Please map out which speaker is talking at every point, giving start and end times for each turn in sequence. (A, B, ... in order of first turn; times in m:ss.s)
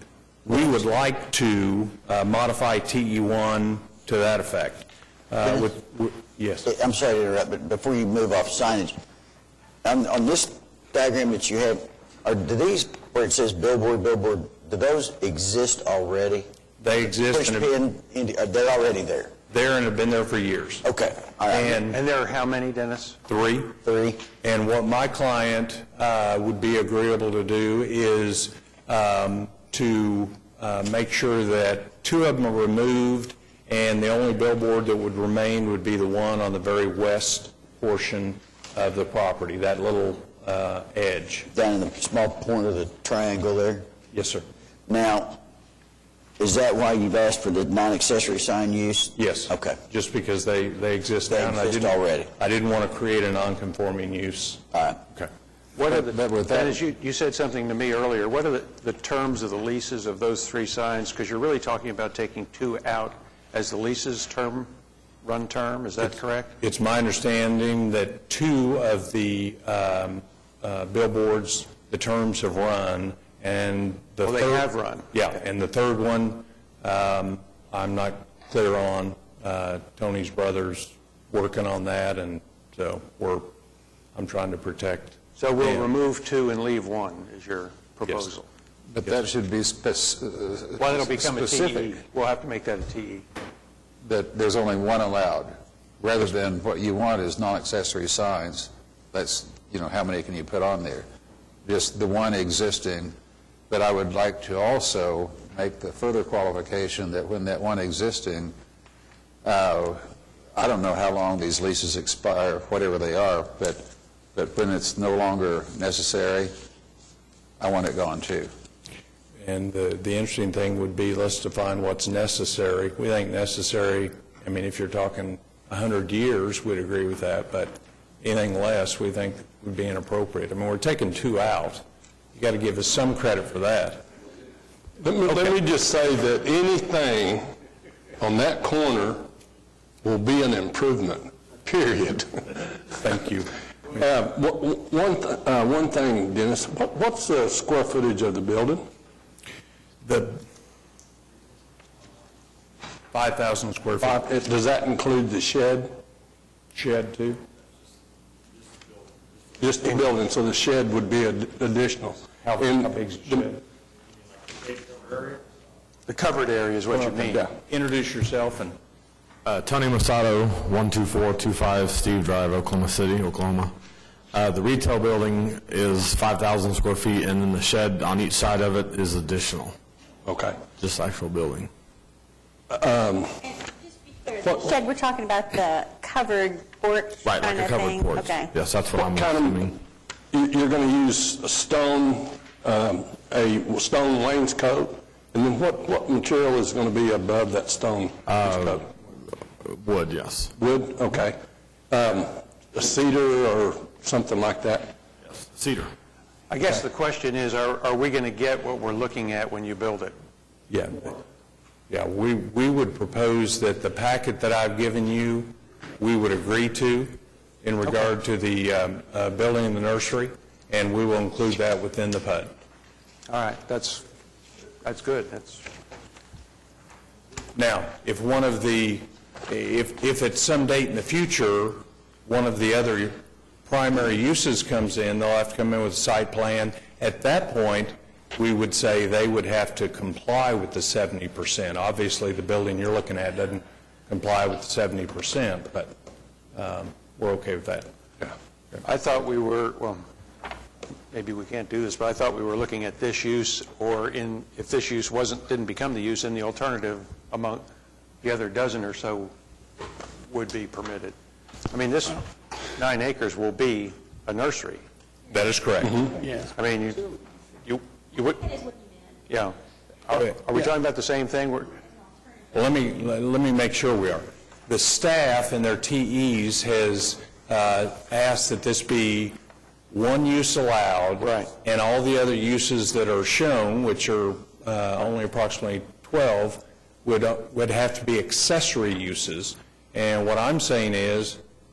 0:00.4-0:06.7 A
0:06.6-0:09.0 B
0:09.8-0:16.4 B
0:16.8-0:17.7 A
0:17.3-0:19.3 B
0:19.5-0:20.8 A
0:20.8-0:21.8 B
0:21.5-0:22.0 A
0:21.6-0:23.2 C
0:23.3-0:23.8 A
0:23.8-0:24.2 B
0:24.4-0:41.5 A
0:41.5-0:43.9 B
0:44.1-0:44.4 A
0:44.9-0:45.4 B
0:46.4-0:49.8 B
0:49.2-0:55.3 A
0:51.3-0:52.3 B
0:54.7-0:55.0 B
0:55.7-1:04.7 C
0:55.9-0:56.8 D
1:05.2-1:06.6 C
1:06.6-1:23.5 A
1:14.2-1:15.1 C
1:24.1-1:25.9 A
1:25.4-1:28.5 C
1:28.9-1:31.9 D
1:30.8-1:33.2 C
1:34.0-1:41.0 D
1:41.6-1:43.1 D
1:43.7-1:48.5 D
1:49.4-1:56.5 D
1:57.6-1:58.5 D
1:59.4-2:11.8 A
2:12.3-2:14.0 A
2:15.0-2:17.5 E
2:15.3-2:15.5 A
2:18.2-2:19.3 E
2:20.0-2:22.7 E
2:23.0-2:23.5 A
2:23.9-2:28.9 E
2:30.0-2:30.4 A
2:33.1-2:34.2 A
2:34.0-2:36.0 E
2:36.7-2:37.4 A
2:39.6-2:43.5 E
2:42.4-2:43.6 A
2:46.1-2:47.5 C
2:46.9-2:48.8 A
2:49.4-2:53.8 F
2:54.3-2:59.8 F
3:00.2-3:00.6 E
3:00.7-3:01.7 F
3:02.7-3:03.5 E
3:04.2-3:08.5 G
3:04.4-3:04.8 E
3:07.2-3:09.8 F
3:08.9-3:18.8 E
3:18.2-3:20.5 F
3:20.5-3:21.4 E
3:21.9-3:25.0 E
3:25.4-3:25.9 F
3:26.5-3:30.1 C
3:30.7-3:31.1 A
3:31.9-3:42.5 A
3:43.3-3:44.0 C
3:44.8-3:45.6 C
3:47.5-4:05.9 A
4:06.5-4:07.9 A
4:08.8-4:10.0 C
4:11.1-4:17.7 C
4:18.2-4:19.3 C
4:20.3-4:21.1 C
4:21.7-4:24.8 C
4:25.3-4:26.1 A
4:26.5-4:27.1 C
4:27.6-4:28.6 C
4:29.3-4:31.8 C
4:32.5-4:39.4 A
4:39.9-4:51.4 A
4:41.2-4:41.5 C